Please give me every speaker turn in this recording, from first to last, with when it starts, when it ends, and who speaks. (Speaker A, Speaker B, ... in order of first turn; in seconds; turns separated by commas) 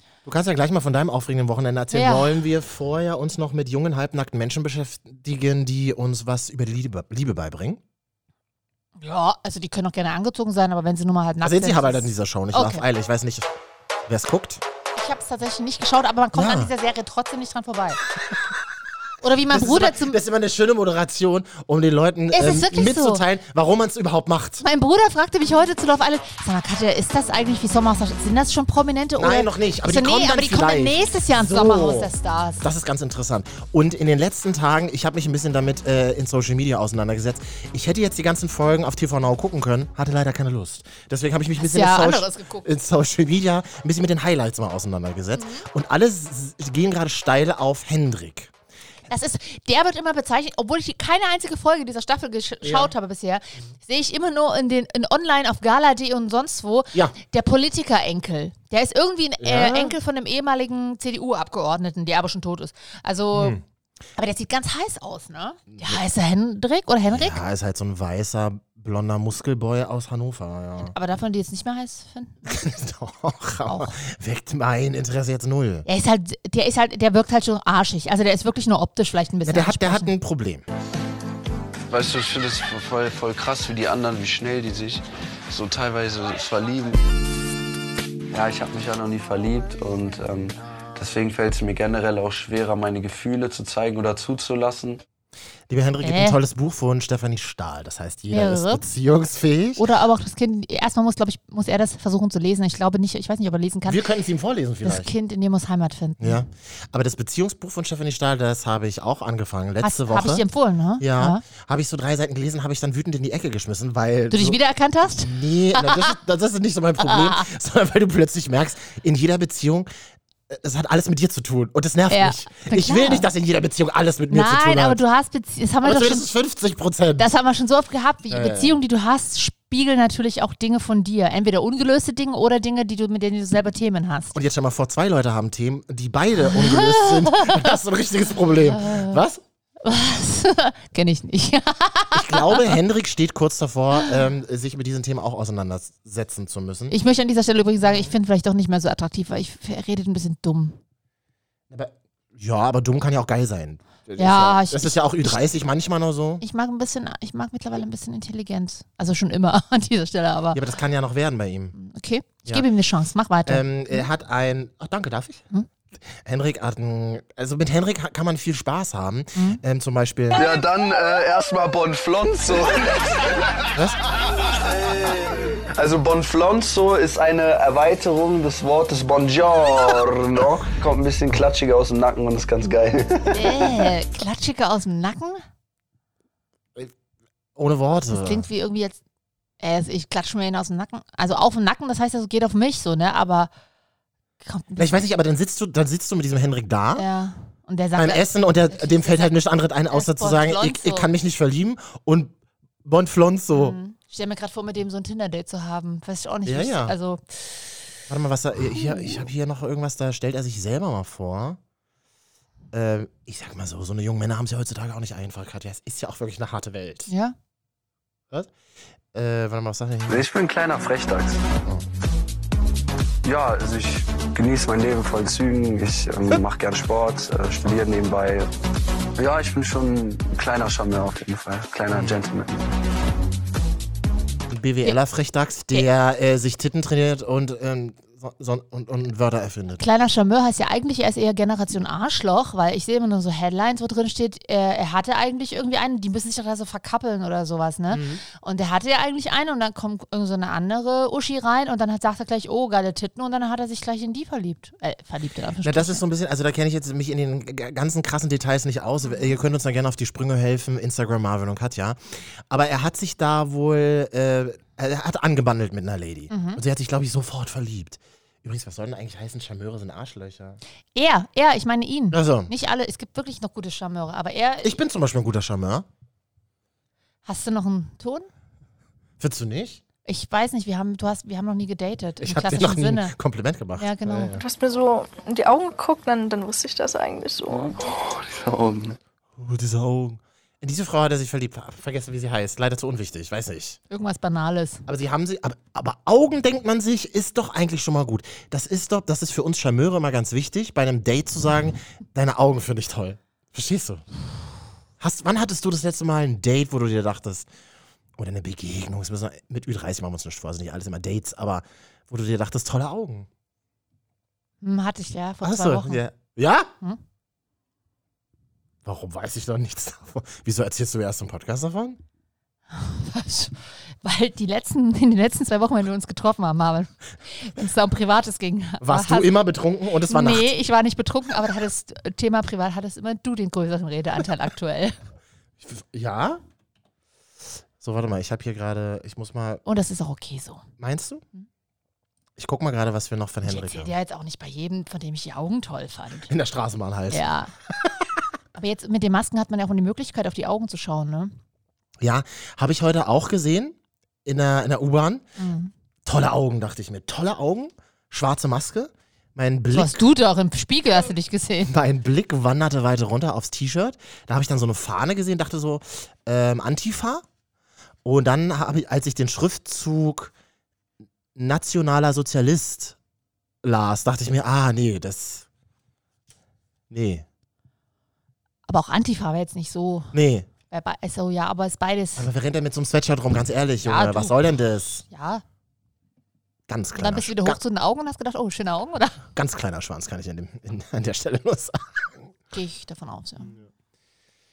Speaker A: 0.2-7.8, Speaker B: 1.9-2.3, Speaker B: 9.0-12.8, Speaker A: 11.4-13.5, Speaker A: 14.1-14.6, Speaker B: 15.0-18.0, Speaker A: 16.3-16.7, Speaker B: 19.2-20.2, Speaker A: 19.5-24.6, Speaker B: 22.3-23.2, Speaker B: 24.6-32.7, Speaker A: 29.2-48.5, Speaker B: 41.6-42.7, Speaker B: 45.4-45.6, Speaker B: 49.1-63.6, Speaker A: 52.6-52.9, Speaker A: 59.4-60.0, Speaker A: 63.3-63.6, Speaker B: 64.2-67.4, Speaker A: 67.1-70.9, Speaker B: 70.9-72.4, Speaker A: 72.4-75.9, Speaker B: 73.7-74.0, Speaker B: 75.9-80.1, Speaker A: 79.4-80.7, Speaker C: 81.9-87.0, Speaker C: 88.3-95.0, Speaker A: 95.7-99.8, Speaker B: 96.0-96.4, Speaker B: 98.3-98.8, Speaker B: 99.8-104.0, Speaker A: 103.8-105.1, Speaker B: 104.8-106.4, Speaker A: 106.2-110.5, Speaker B: 109.8-111.4, Speaker A: 111.0-114.6, Speaker B: 114.3-116.2, Speaker A: 115.2-119.9, Speaker B: 117.0-117.5, Speaker A: 120.5-125.0, Speaker B: 122.1-123.3, Speaker B: 124.3-126.3, Speaker A: 125.8-127.4, Speaker B: 127.2-134.4, Speaker A: 128.3-128.8, Speaker A: 134.3-139.4, Speaker B: 136.4-137.7, Speaker B: 138.7-139.2, Speaker B: 139.8-142.8, Speaker A: 142.1-146.9, Speaker B: 146.9-150.8, Speaker A: 151.7-156.4, Speaker B: 154.2-155.4, Speaker B: 156.4-160.6, Speaker A: 160.5-161.8, Speaker B: 161.8-164.1, Speaker A: 163.4-165.4, Speaker A: 166.1-170.4, Speaker B: 169.4-169.6, Speaker C: 170.3-173.0, Speaker A: 173.7-174.0, Speaker C: 174.7-183.4, Speaker B: 183.3-185.4, Speaker A: 187.6-188.4, Speaker B: 188.1-189.0, Speaker B: 189.6-193.5, Speaker B: 194.4-195.0, Speaker A: 194.8-197.1, Speaker B: 196.9-199.3, Speaker A: 197.9-203.8, Speaker B: 199.9-201.1, Speaker B: 203.5-207.8, Speaker A: 206.4-206.9, Speaker A: 208.1-211.6, Speaker B: 208.7-209.2, Speaker A: 212.7-217.1, Speaker B: 217.1-217.3, Speaker A: 219.1-220.3, Speaker C: 220.1-221.4, Speaker C: 223.2-228.5, Speaker C: 229.2-232.7, Speaker A: 231.9-232.2, Speaker A: 234.5-239.8, Speaker B: 239.8-256.0, Speaker A: 247.9-248.2, Speaker A: 255.6-262.0, Speaker A: 262.5-270.6, Speaker B: 266.3-266.6, Speaker B: 270.9-274.8, Speaker A: 272.1-272.5, Speaker A: 274.6-275.9, Speaker B: 277.3-278.3, Speaker A: 279.2-279.8, Speaker B: 280.1-283.1, Speaker A: 282.2-284.4, Speaker B: 283.8-284.4, Speaker D: 284.4-287.8, Speaker C: 287.6-289.0, Speaker A: 289.4-293.8, Speaker B: 293.9-294.8, Speaker A: 294.9-304.0, Speaker A: 305.0-307.5, Speaker A: 308.2-313.3, Speaker B: 314.6-316.0, Speaker A: 315.4-316.7, Speaker A: 318.8-322.0, Speaker B: 322.7-329.3, Speaker A: 328.8-330.5, Speaker B: 330.1-334.9, Speaker A: 335.6-336.4, Speaker A: 337.8-339.6, Speaker B: 339.7-340.6, Speaker A: 340.8-341.2, Speaker A: 342.4-343.9, Speaker B: 343.4-346.3, Speaker A: 346.3-348.2, Speaker B: 347.1-347.5, Speaker B: 348.6-351.4, Speaker A: 352.0-355.2, Speaker B: 355.4-355.7, Speaker A: 356.1-360.0, Speaker B: 359.7-361.7, Speaker A: 361.7-367.2, Speaker A: 368.1-370.3, Speaker A: 371.3-373.0, Speaker A: 373.6-375.4, Speaker A: 376.9-377.3, Speaker B: 378.7-380.1, Speaker A: 380.1-380.5, Speaker B: 380.7-382.3, Speaker A: 382.2-385.1, Speaker B: 383.8-384.4, Speaker B: 385.1-385.4, Speaker A: 386.7-387.6, Speaker B: 387.0-389.2, Speaker A: 389.3-392.3, Speaker B: 392.5-393.5